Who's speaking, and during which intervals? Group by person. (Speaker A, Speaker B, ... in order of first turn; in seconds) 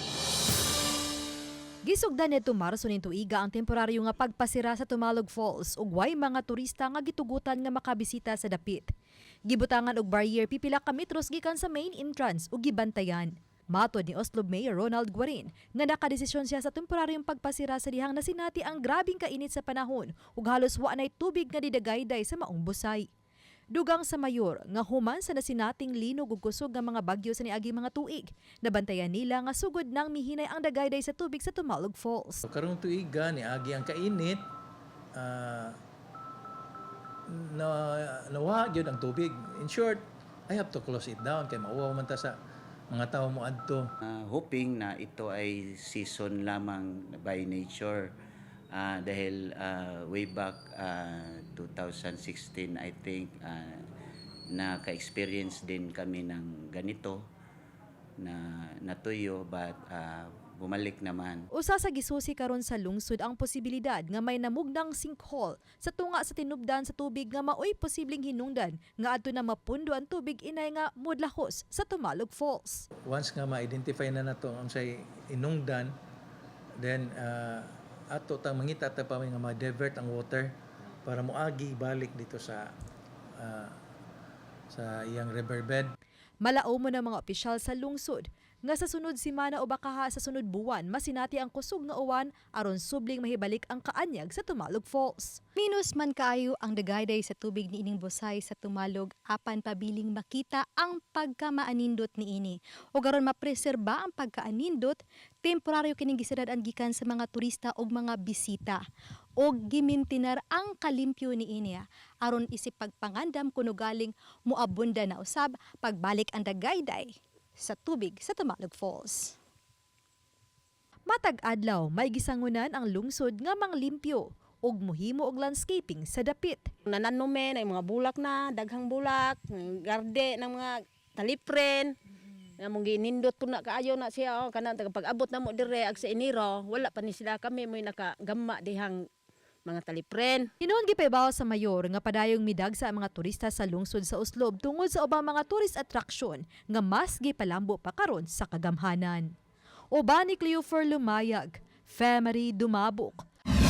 Speaker A: 1.8-8.9, 9.5-23.1, 23.7-32.4, 61.5-72.8, 86.4-95.4, 121.1-126.7, 140.6-149.3, 149.9-153.2
Speaker B: 32.5-34.4, 35.1-35.7, 37.3-42.3, 42.9-43.8, 73.1-75.9, 76.8-80.5, 81.0-82.7, 83.4-83.8, 84.7-85.9
Speaker C: 44.0-48.1, 48.7-53.8, 54.5-57.2, 58.2-61.5
Speaker D: 95.6-108.8, 109.4-119.3
Speaker E: 126.8-131.9, 132.6-139.0, 139.7-140.5